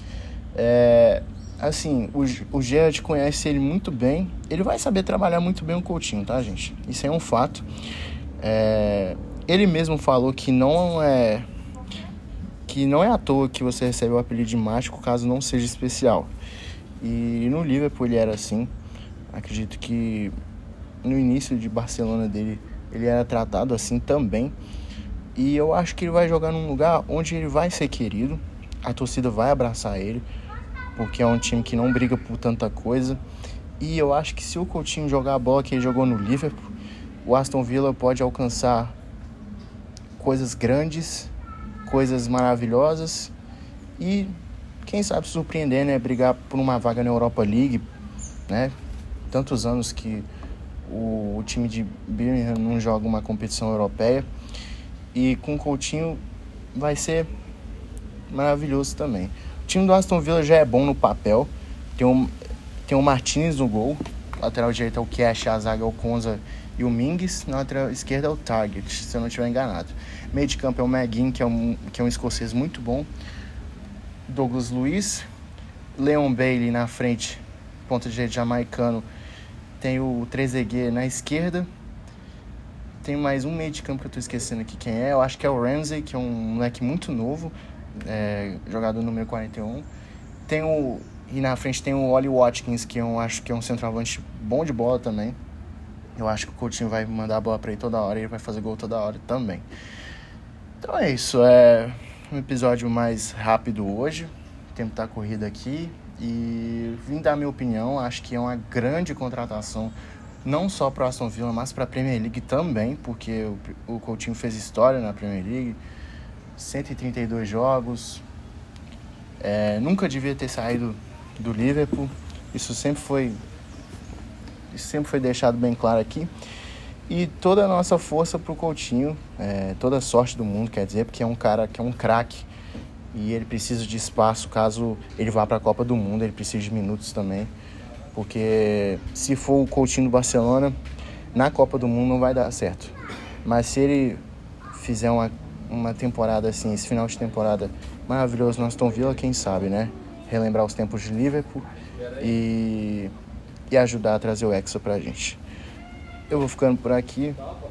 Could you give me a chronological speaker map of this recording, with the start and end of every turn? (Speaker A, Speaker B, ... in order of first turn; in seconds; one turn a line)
Speaker A: 0.6-7.7
Speaker A: 8.4-11.5
Speaker A: 12.7-16.3
Speaker A: 17.0-18.7
Speaker A: 19.3-20.3
Speaker A: 21.0-24.6
Speaker A: 25.4-30.2
Speaker A: 31.0-33.2
Speaker A: 33.8-36.7
Speaker A: 37.2-39.0
Speaker A: 40.2-41.3
Speaker A: 41.9-43.3
Speaker A: 44.0-44.3
Speaker A: 44.8-47.9
Speaker A: 48.5-48.7
Speaker A: 49.3-50.3
Speaker A: 50.9-54.2
Speaker A: 55.1-56.2
Speaker A: 56.7-57.3
Speaker A: 58.3-62.3
Speaker A: 62.9-73.1
Speaker A: 74.3-75.2
Speaker A: 76.0-79.1
Speaker A: 79.8-81.7
Speaker A: 83.0-89.9
Speaker A: 90.5-95.4
Speaker A: 96.2-99.7
Speaker A: 100.8-115.8
Speaker A: 116.6-118.2
Speaker A: 119.4-123.4
Speaker A: 124.7-126.3
Speaker A: 127.1-132.5
Speaker A: 133.1-137.5
Speaker A: 138.1-140.7
Speaker A: 141.3-142.9
Speaker A: 143.4-144.2
Speaker A: 144.7-151.7
Speaker A: 152.2-153.1
Speaker A: 153.7-155.4
Speaker A: 156.3-157.4